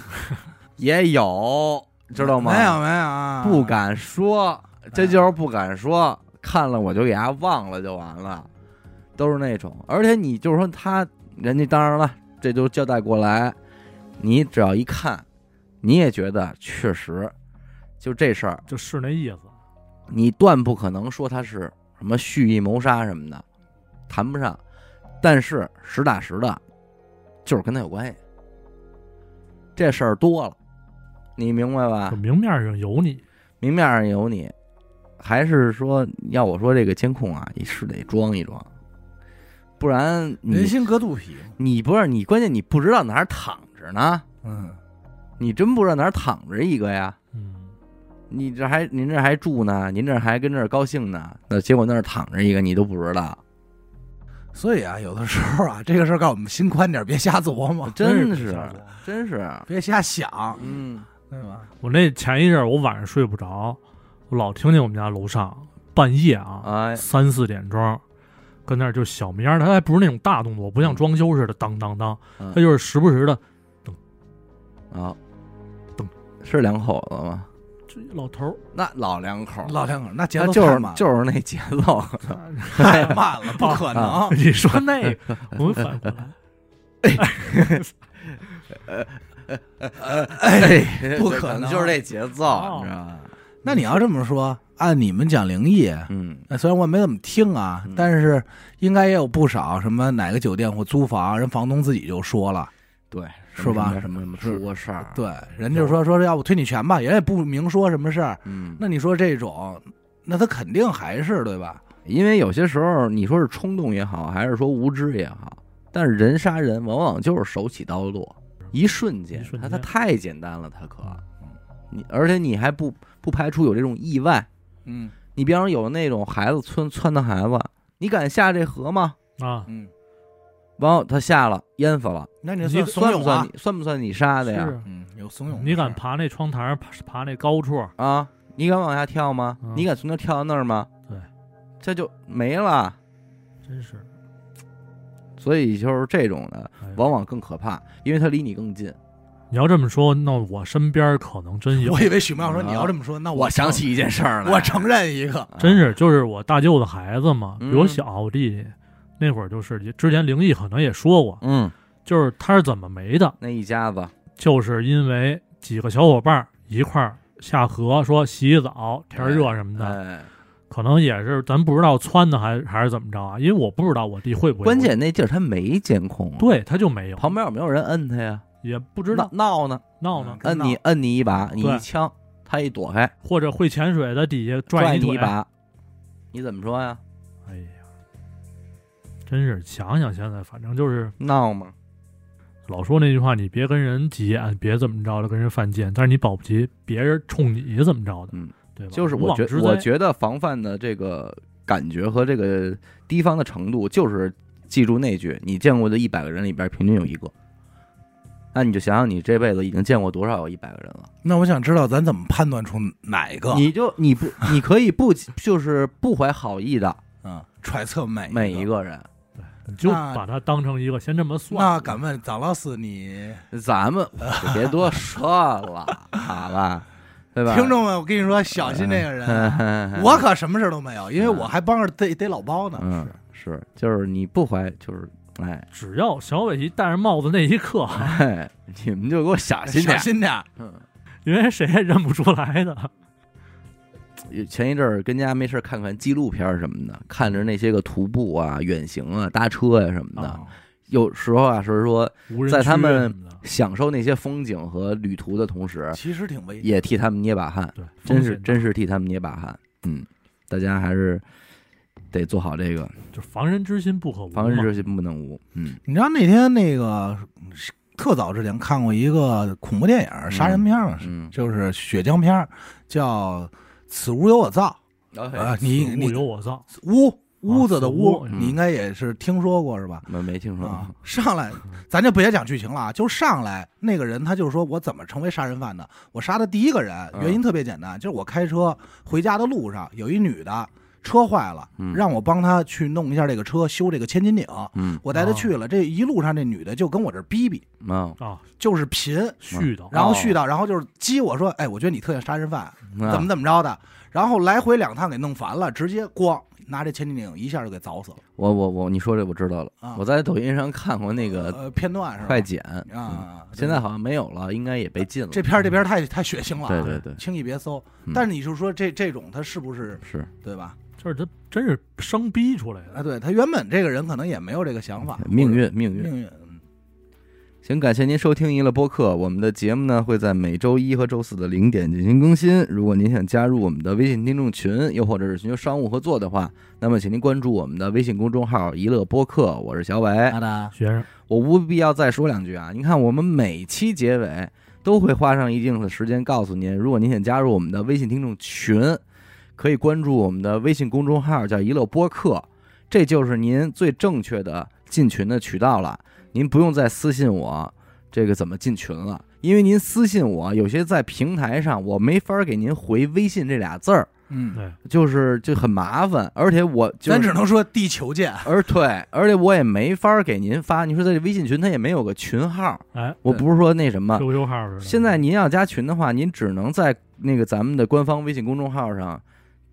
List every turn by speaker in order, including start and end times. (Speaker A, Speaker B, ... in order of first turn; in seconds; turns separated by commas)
Speaker A: 0.8-2.8, Speaker B: 2.2-3.8, Speaker A: 3.4-8.5, Speaker B: 4.9-5.2, Speaker A: 9.2-13.6, Speaker A: 14.2-15.2, Speaker A: 15.8-17.3, Speaker A: 18.0-18.6, Speaker C: 18.7-19.5, Speaker A: 20.1-23.4, Speaker A: 24.1-24.6, Speaker A: 25.2-26.6, Speaker A: 27.4-28.2, Speaker A: 29.8-30.6, Speaker A: 31.4-32.2, Speaker C: 32.1-33.2, Speaker A: 33.6-34.5, Speaker A: 35.2-38.7, Speaker A: 39.8-40.8, Speaker B: 40.5-41.6, Speaker A: 41.6-44.2, Speaker B: 44.4-44.8, Speaker A: 45.4-47.2, Speaker C: 47.3-47.7, Speaker A: 48.3-53.4, Speaker B: 54.5-59.0, Speaker A: 57.9-59.7, Speaker B: 59.7-60.7, Speaker A: 60.6-61.0, Speaker B: 61.2-61.7, Speaker C: 61.8-63.8, Speaker C: 64.3-68.0, Speaker A: 66.6-67.0, Speaker C: 68.7-74.0, Speaker A: 74.9-75.2, Speaker A: 76.4-77.5, Speaker C: 77.9-78.6, Speaker A: 78.7-79.8, Speaker B: 79.6-81.0, Speaker A: 80.4-82.9, Speaker C: 82.3-86.3, Speaker B: 82.7-84.4, Speaker A: 83.9-85.9, Speaker A: 87.0-93.3, Speaker C: 87.2-87.9, Speaker B: 90.0-92.0, Speaker C: 92.4-92.9, Speaker B: 93.6-102.7, Speaker A: 96.1-96.5, Speaker A: 103.1-105.2, Speaker B: 103.5-104.6, Speaker B: 105.1-111.8, Speaker A: 108.5-108.8, Speaker A: 112.0-121.2, Speaker C: 119.3-119.9, Speaker A: 121.9-124.5, Speaker B: 124.8-125.2, Speaker A: 125.3-129.2, Speaker C: 129.4-129.7, Speaker A: 130.8-132.3, Speaker B: 132.4-133.5, Speaker C: 132.6-133.0, Speaker A: 132.9-134.8, Speaker C: 134.4-134.8, Speaker B: 134.8-136.0, Speaker C: 135.5-137.9, Speaker A: 138.0-140.9, Speaker A: 141.8-143.0, Speaker C: 143.6-144.1, Speaker A: 145.4-149.0, Speaker C: 149.5-152.2, Speaker B: 151.7-153.9, Speaker A: 152.4-154.8, Speaker B: 154.4-155.5, Speaker A: 155.5-155.8, Speaker C: 155.6-161.4, Speaker A: 157.6-158.0, Speaker A: 161.4-161.7, Speaker C: 162.1-163.3, Speaker A: 163.4-164.1, Speaker C: 164.4-170.0, Speaker A: 169.1-170.3, Speaker C: 170.7-174.9, Speaker A: 174.6-176.6, Speaker C: 176.4-177.3, Speaker A: 177.2-178.4, Speaker C: 178.6-179.3, Speaker A: 179.1-179.8, Speaker C: 180.0-180.4, Speaker B: 180.1-180.8, Speaker A: 180.4-183.1, Speaker C: 181.6-181.8, Speaker C: 183.2-185.3, Speaker A: 184.7-185.5, Speaker A: 186.3-187.0, Speaker C: 187.5-187.8, Speaker C: 189.3-191.1, Speaker A: 191.2-191.7, Speaker C: 192.7-199.9, Speaker A: 198.3-207.3, Speaker A: 208.5-211.1, Speaker B: 211.2-213.7, Speaker A: 213.5-217.0, Speaker B: 217.2-218.7, Speaker A: 218.3-219.1, Speaker C: 219.6-222.0, Speaker B: 219.8-220.2, Speaker B: 221.5-223.4, Speaker A: 223.5-227.8, Speaker B: 224.2-224.8, Speaker B: 227.5-233.1, Speaker A: 228.5-230.2, Speaker A: 231.2-231.5, Speaker A: 232.8-235.7, Speaker C: 235.7-238.2, Speaker A: 237.9-240.8, Speaker B: 239.7-240.5, Speaker C: 241.2-242.9, Speaker A: 244.2-256.0, Speaker C: 250.2-250.4, Speaker C: 252.3-253.4, Speaker B: 255.9-256.7, Speaker A: 256.6-261.2, Speaker C: 257.8-258.7, Speaker A: 262.1-262.9, Speaker C: 263.1-264.7, Speaker A: 264.3-265.8, Speaker B: 265.8-274.8, Speaker A: 270.3-271.3, Speaker A: 275.1-275.6, Speaker B: 275.3-297.6, Speaker C: 275.6-276.6, Speaker C: 277.5-278.4, Speaker A: 280.1-280.9, Speaker A: 287.1-287.4, Speaker A: 291.8-292.0, Speaker A: 294.7-295.0, Speaker C: 295.1-295.5, Speaker A: 297.8-298.2, Speaker C: 298.2-298.4, Speaker B: 298.6-308.2, Speaker C: 299.4-299.9, Speaker A: 299.5-300.4, Speaker A: 302.9-303.3, Speaker A: 308.4-311.6, Speaker B: 311.2-313.8, Speaker A: 312.2-315.5, Speaker B: 315.3-320.8, Speaker A: 316.6-317.2, Speaker A: 320.0-320.3, Speaker C: 321.0-323.0, Speaker B: 322.9-326.6, Speaker A: 325.2-326.1, Speaker A: 327.6-340.4, Speaker B: 340.3-340.7, Speaker C: 340.7-341.1, Speaker A: 341.3-349.0, Speaker A: 349.6-364.1, Speaker B: 364.3-364.6, Speaker A: 364.8-367.3, Speaker B: 367.1-368.6, Speaker A: 368.4-374.3, Speaker C: 372.9-373.4, Speaker C: 374.1-375.2, Speaker A: 374.8-379.2